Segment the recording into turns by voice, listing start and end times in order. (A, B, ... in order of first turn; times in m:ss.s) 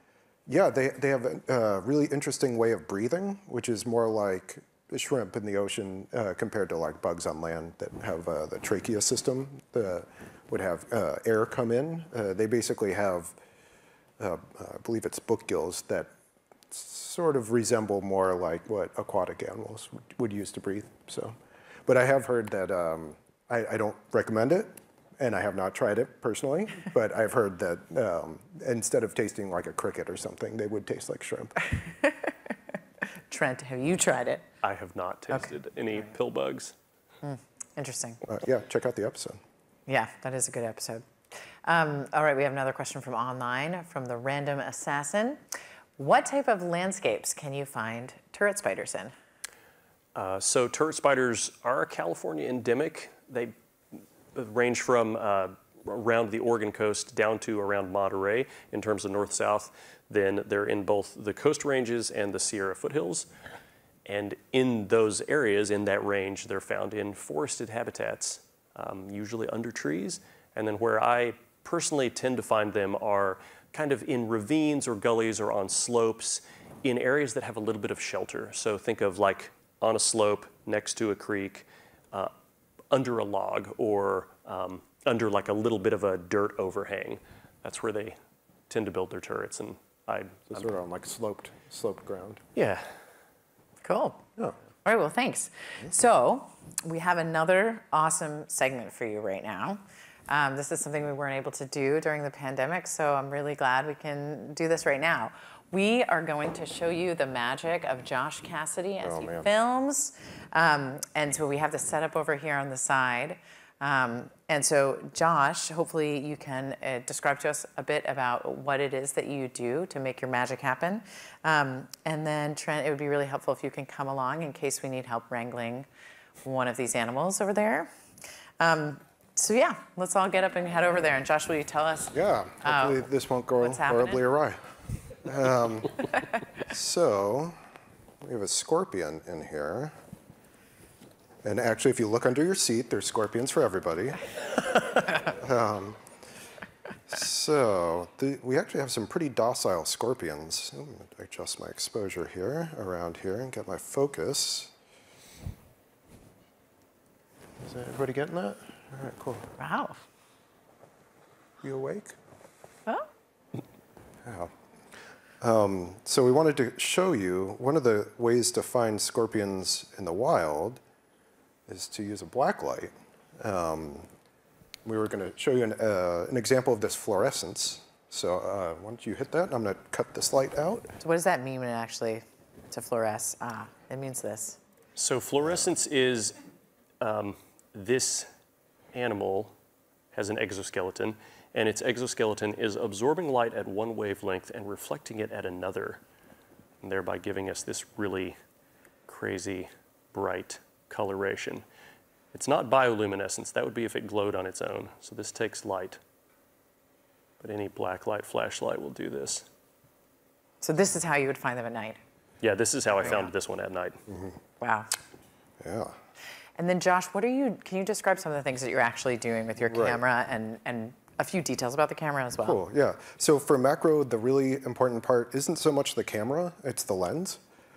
0:00.5-0:13.4 A
0:14.2-0:16.1 A
0:16.7-0:31.6 A
0:31.8-0:32.3 B
0:33.3-0:34.4 B
0:34.6-0:36.7 C
0:37.2-0:38.2 B
0:38.2-0:39.4 A
0:39.9-0:45.4 B
0:46.0-0:49.1 B
0:50.2-0:53.5 C
0:54.3-1:03.3 C
1:04.1-1:22.3 C
1:22.9-1:28.2 C
1:28.7-1:30.7 C
1:30.5-1:32.4 A
1:32.6-1:33.0 C
1:33.8-1:34.2 B
1:34.8-2:05.9 B
1:49.0-1:49.5 A
2:06.4-2:07.9 B
2:08.6-2:13.0 B
2:12.1-2:14.7 A
2:13.6-2:14.2 B
2:15.2-2:16.0 A
2:16.7-2:17.6 A
2:18.2-2:20.0 A
2:21.4-2:24.2 A
2:25.3-2:26.0 A
2:27.1-2:34.7 A
2:37.6-2:39.5 A
2:39.6-2:40.0 B
2:41.6-2:42.2 A
2:44.2-2:44.5 A
2:45.4-2:50.8 A
2:51.7-2:54.1 A
2:54.8-3:00.9 A
3:01.0-3:04.6 B
3:05.0-3:06.4 C
3:05.4-3:05.7 A
3:07.0-3:08.3 C
3:08.9-3:09.5 C
3:10.1-3:16.0 C
3:16.8-3:18.4 C
3:19.1-3:21.6 C
3:22.3-3:26.0 C
3:27.4-3:29.5 C
3:30.6-3:32.0 B
3:32.4-3:34.0 C
3:34.1-3:34.4 A
3:34.6-3:34.9 B
3:35.6-3:36.0 A
3:36.6-3:42.6 B
3:39.7-3:40.0 A
3:42.4-3:47.4 A